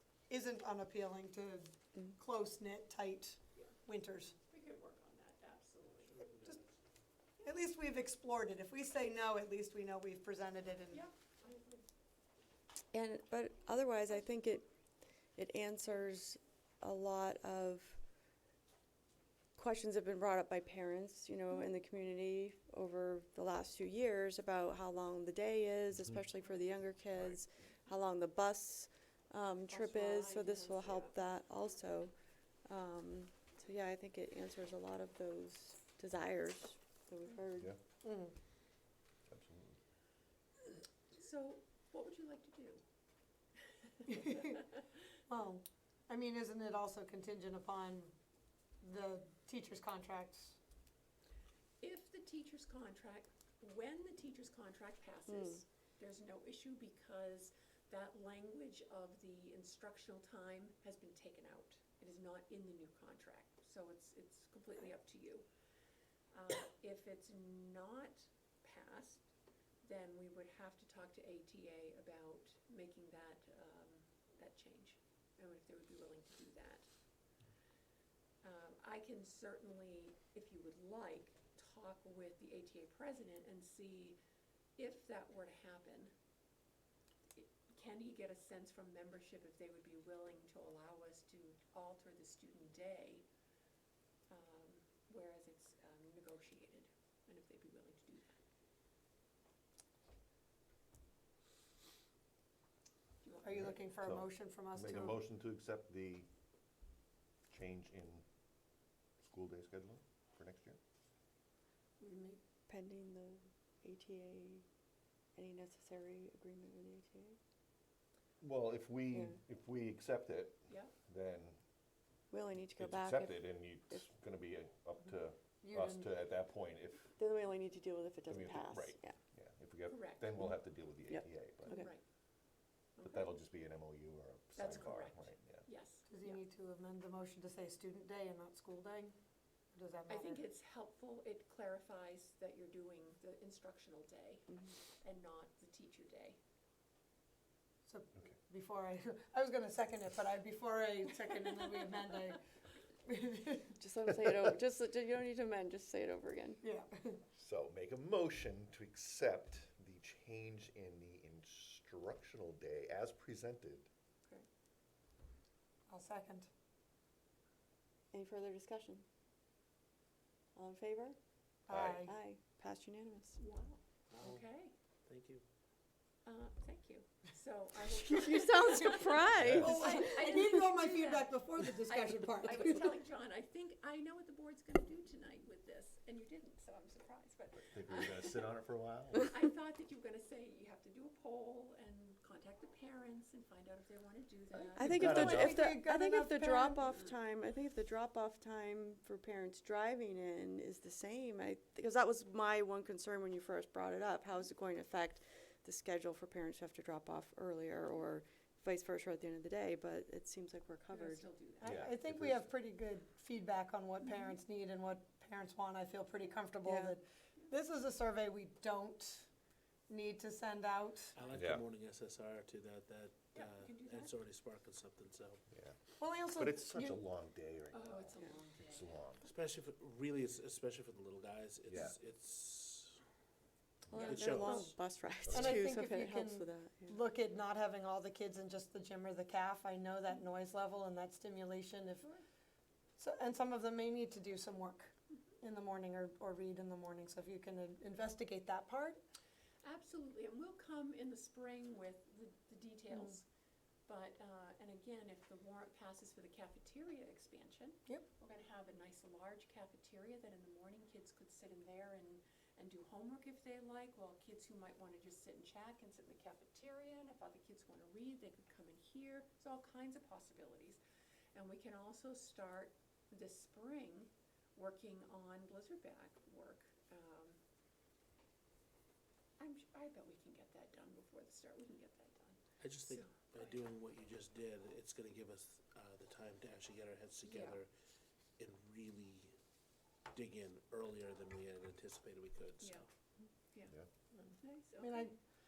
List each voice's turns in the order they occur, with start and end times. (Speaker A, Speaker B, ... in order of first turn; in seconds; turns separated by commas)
Speaker A: 0.3-4.3, Speaker B: 4.4-6.3, Speaker C: 6.1-6.6, Speaker A: 7.4-11.0, Speaker B: 10.9-11.9, Speaker D: 12.9-14.7, Speaker D: 15.4-18.0, Speaker D: 19.6-32.1, Speaker B: 29.7-31.2, Speaker D: 32.6-37.7, Speaker A: 38.0-38.4, Speaker E: 39.3-39.8, Speaker B: 41.1-42.8, Speaker A: 44.1-44.6, Speaker A: 45.3-48.1, Speaker A: 48.8-50.6, Speaker B: 51.8-65.4, Speaker D: 55.3-55.6, Speaker B: 66.3-69.3, Speaker B: 69.8-76.9, Speaker B: 78.4-84.2, Speaker B: 84.8-86.1, Speaker B: 87.3-93.2, Speaker B: 94.3-98.4, Speaker B: 103.2-103.7, Speaker A: 103.4-105.2, Speaker E: 103.4-106.3, Speaker E: 107.5-108.2, Speaker E: 109.2-110.8, Speaker A: 112.0-112.4, Speaker D: 112.7-114.6, Speaker D: 115.3-117.4, Speaker E: 118.4-121.6, Speaker D: 119.1-119.4, Speaker B: 120.7-120.9, Speaker D: 122.3-124.1, Speaker E: 122.8-127.2, Speaker A: 125.6-126.1, Speaker D: 127.2-129.2, Speaker E: 128.3-131.8, Speaker B: 129.9-130.4, Speaker D: 131.1-131.9, Speaker B: 131.7-132.0, Speaker B: 132.9-133.4, Speaker E: 133.0-135.7, Speaker B: 134.5-136.4, Speaker A: 136.1-139.1, Speaker A: 139.7-140.4, Speaker B: 140.1-146.4, Speaker A: 147.8-152.4, Speaker A: 153.0-153.8, Speaker D: 153.8-156.6, Speaker A: 156.6-157.2, Speaker E: 157.3-163.9, Speaker A: 165.9-166.5, Speaker D: 168.1-169.0, Speaker D: 170.6-171.2, Speaker A: 171.7-172.1, Speaker E: 171.7-172.1, Speaker D: 172.0-173.4, Speaker B: 173.4-174.7, Speaker C: 174.1-174.4, Speaker C: 175.1-175.4, Speaker B: 176.2-188.5, Speaker D: 178.1-180.4, Speaker E: 179.4-179.8, Speaker A: 179.6-183.0, Speaker E: 187.5-189.3, Speaker B: 189.1-195.6, Speaker D: 194.7-211.2, Speaker E: 194.8-195.7, Speaker A: 194.8-196.9, Speaker B: 210.9-211.9, Speaker E: 211.6-212.5, Speaker A: 211.6-219.3, Speaker D: 216.6-216.9, Speaker A: 219.9-221.2, Speaker C: 221.1-225.4, Speaker E: 221.3-221.6, Speaker B: 223.3-224.1, Speaker E: 225.5-229.3, Speaker A: 226.0-227.0, Speaker B: 227.7-228.9, Speaker C: 229.2-233.0, Speaker E: 231.7-231.9, Speaker E: 233.9-234.6, Speaker C: 233.9-234.8, Speaker D: 233.9-236.9, Speaker E: 235.3-235.6, Speaker A: 235.3-242.2, Speaker A: 243.0-249.0, Speaker B: 249.6-253.2, Speaker B: 253.9-270.8, Speaker B: 271.3-277.4, Speaker B: 279.4-283.6, Speaker C: 282.6-287.7, Speaker B: 287.2-287.6, Speaker C: 288.4-289.3, Speaker C: 290.1-292.9, Speaker B: 292.6-292.8, Speaker A: 294.2-295.2, Speaker B: 294.4-295.1